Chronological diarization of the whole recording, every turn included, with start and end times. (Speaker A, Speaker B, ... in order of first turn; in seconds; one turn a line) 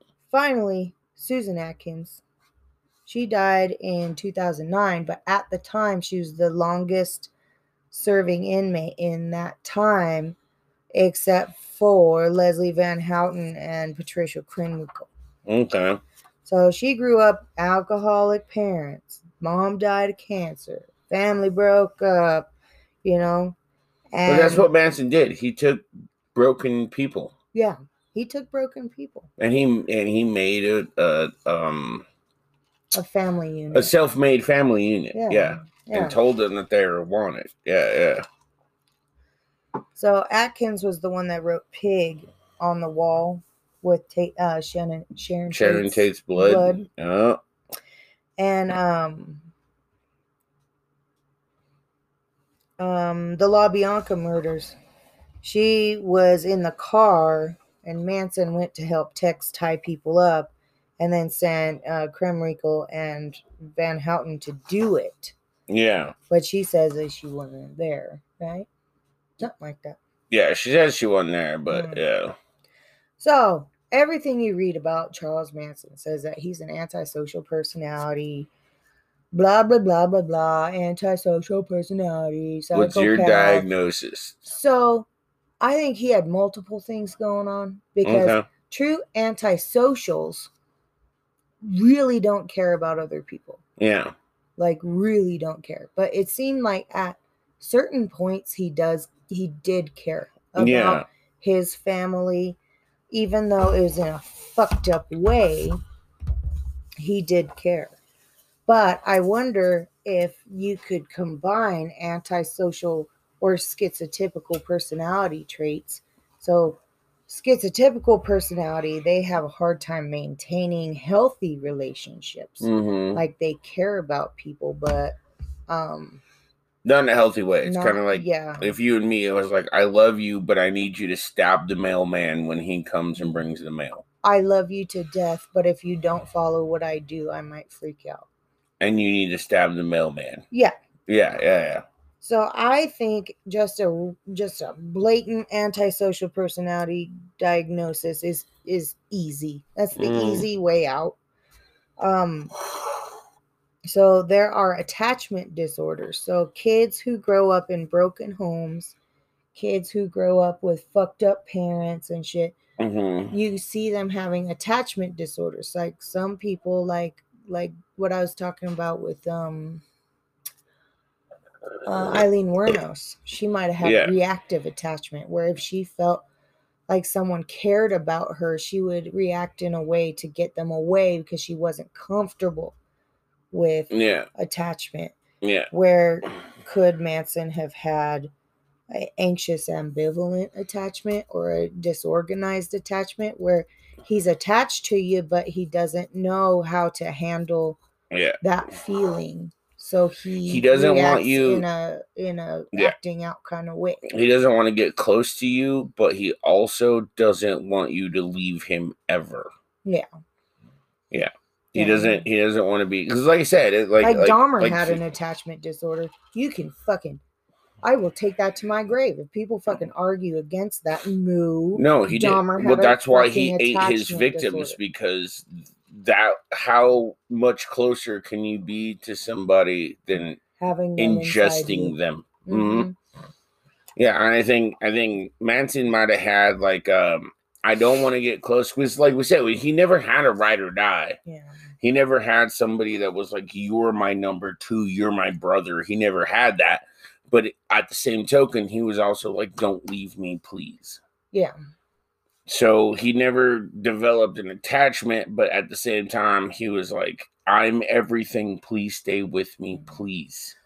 Speaker A: 0.3-2.2
Speaker A: 3.0-7.3
Speaker A: 7.9-10.4
Speaker A: 10.9-15.1
Speaker B: 15.4-16.0
Speaker A: 16.4-22.5
Speaker A: 23.0-23.6
Speaker A: 24.1-24.7
Speaker B: 24.2-27.3
Speaker A: 27.5-29.3
Speaker B: 29.4-32.0
Speaker A: 32.9-33.9
Speaker B: 33.7-38.2
Speaker A: 35.1-36.1
Speaker A: 39.9-46.9
Speaker B: 45.5-47.4
Speaker A: 48.4-49.5
Speaker A: 52.8-54.8
Speaker A: 55.4-65.3
Speaker B: 65.7-66.1
Speaker A: 66.3-68.7
Speaker A: 69.4-70.0
Speaker B: 70.3-72.3
Speaker A: 71.7-72.0
Speaker A: 73.2-78.5
Speaker A: 79.3-83.7
Speaker B: 82.7-84.5
Speaker A: 84.5-85.1
Speaker A: 85.6-90.5
Speaker B: 88.0-88.5
Speaker A: 91.6-93.6
Speaker B: 93.8-94.1
Speaker A: 94.6-102.6
Speaker B: 100.5-101.0
Speaker A: 103.1-105.8
Speaker A: 107.0-108.0
Speaker A: 108.7-125.2
Speaker B: 122.6-123.2
Speaker A: 125.7-126.2
Speaker B: 126.8-134.0
Speaker A: 127.6-128.7
Speaker A: 134.2-138.3
Speaker B: 138.8-140.4
Speaker B: 141.1-141.8
Speaker A: 142.2-151.2
Speaker B: 149.9-150.4
Speaker A: 152.0-152.5
Speaker A: 153.9-158.9
Speaker A: 159.5-162.6
Speaker B: 162.8-163.3
Speaker A: 163.3-169.8
Speaker A: 171.8-176.2
Speaker B: 173.8-174.1
Speaker A: 176.9-182.8
Speaker A: 183.5-185.2
Speaker B: 183.9-184.3
Speaker B: 185.4-185.7
Speaker A: 185.7-188.3
Speaker A: 188.9-197.8
Speaker B: 198.1-198.4
Speaker A: 198.4-204.0
Speaker B: 200.4-201.7
Speaker B: 204.0-209.5
Speaker B: 211.1-215.0
Speaker A: 211.7-212.2
Speaker A: 214.0-217.2
Speaker A: 217.8-224.8
Speaker B: 221.8-230.4
Speaker A: 230.6-231.9
Speaker B: 231.0-232.9
Speaker A: 232.4-232.9
Speaker B: 233.9-241.2
Speaker A: 241.2-241.5
Speaker B: 241.8-251.0
Speaker B: 252.5-260.6